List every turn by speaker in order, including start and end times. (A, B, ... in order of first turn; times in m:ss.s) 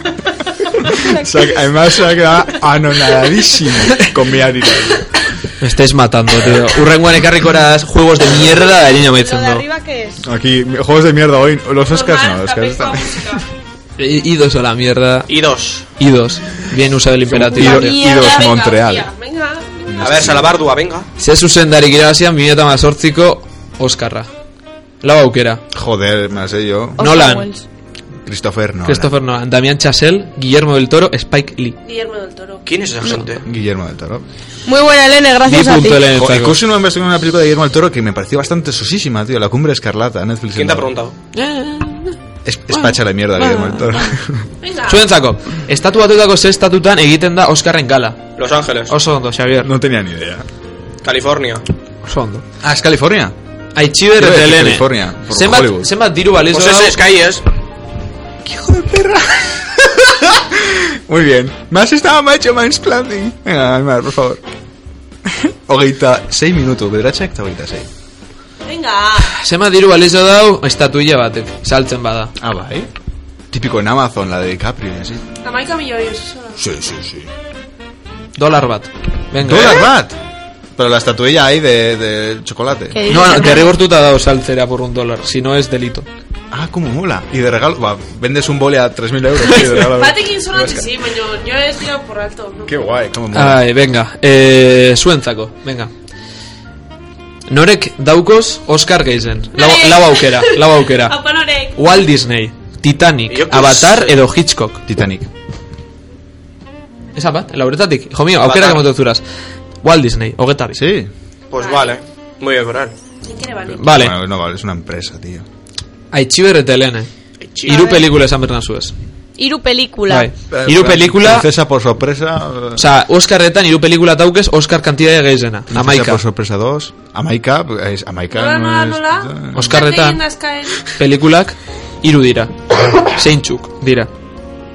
0:00.9-0:05.1 A
0:05.6-0:09.6 B
0:08.7-0:10.2 C
0:10.2-0:13.4 A
0:11.9-0:13.5 D
0:14.0-0:15.3 B
0:15.3-0:15.8 E
0:16.0-0:18.0 B
0:17.3-0:19.1 A
0:17.5-0:18.4 C
0:18.0-0:19.9 D
0:19.9-0:20.6 A
0:20.0-0:21.1 E
0:21.2-0:24.3 B
0:25.0-0:25.6 B
0:25.7-0:27.0 A
0:27.0-0:27.6 C
0:27.0-0:27.5 B
0:28.2-0:29.1 A
0:28.8-0:31.8 B
0:31.8-0:32.7 D
0:32.6-0:33.4 E
0:33.4-0:34.2 A
0:34.6-0:36.1 C
0:35.4-0:36.6 B
0:36.1-0:40.9 A
0:40.5-0:41.1 E
0:41.3-0:42.1 B
0:42.4-0:44.5 A
0:42.7-0:44.1 B
0:44.6-0:45.0 D
0:44.9-0:48.2 B
0:48.4-0:48.9 E
0:48.9-0:49.7 B
0:49.6-0:50.4 A
0:51.0-0:51.6 E
0:52.0-0:52.4 B
0:52.6-0:53.3 A
0:53.7-0:57.0 B
0:54.1-0:55.9 A
0:56.4-0:57.4 E
0:58.4-1:04.4 A
1:05.2-1:07.9 A
1:08.6-1:09.3 D
1:09.3-1:12.3 B
1:12.4-1:12.9 A
1:13.5-1:15.2 A
1:15.4-1:16.6 D
1:16.6-1:17.3 A
1:18.4-1:19.9 B
1:19.4-1:20.1 A
1:20.8-1:23.0 A
1:22.9-1:23.7 C
1:23.1-1:26.1 B
1:26.5-1:30.9 A
1:29.8-1:32.8 D
1:32.6-1:33.6 A
1:33.3-1:35.9 B
1:37.5-1:41.2 B
1:39.6-1:41.8 D
1:41.8-1:44.8 B
1:43.3-1:44.2 E
1:44.9-1:45.3 A
1:47.1-1:49.2 B
1:48.4-1:48.9 E
1:49.8-1:50.8 B
1:50.7-1:51.1 A
1:51.5-1:52.9 E
1:51.6-1:52.0 D
1:53.2-1:53.8 D
1:53.7-1:55.4 A
1:53.8-1:54.1 B
1:56.1-1:57.1 B
1:57.4-1:58.0 E
1:57.6-1:58.9 B
1:57.6-1:58.0 C
1:59.4-2:00.3 C
2:00.1-2:01.4 B
2:00.5-2:02.8 A
2:02.8-2:06.2 B
2:05.7-2:09.8 A
2:08.3-2:10.9 D
2:09.5-2:10.2 B
2:11.0-2:12.5 B
2:13.1-2:14.1 B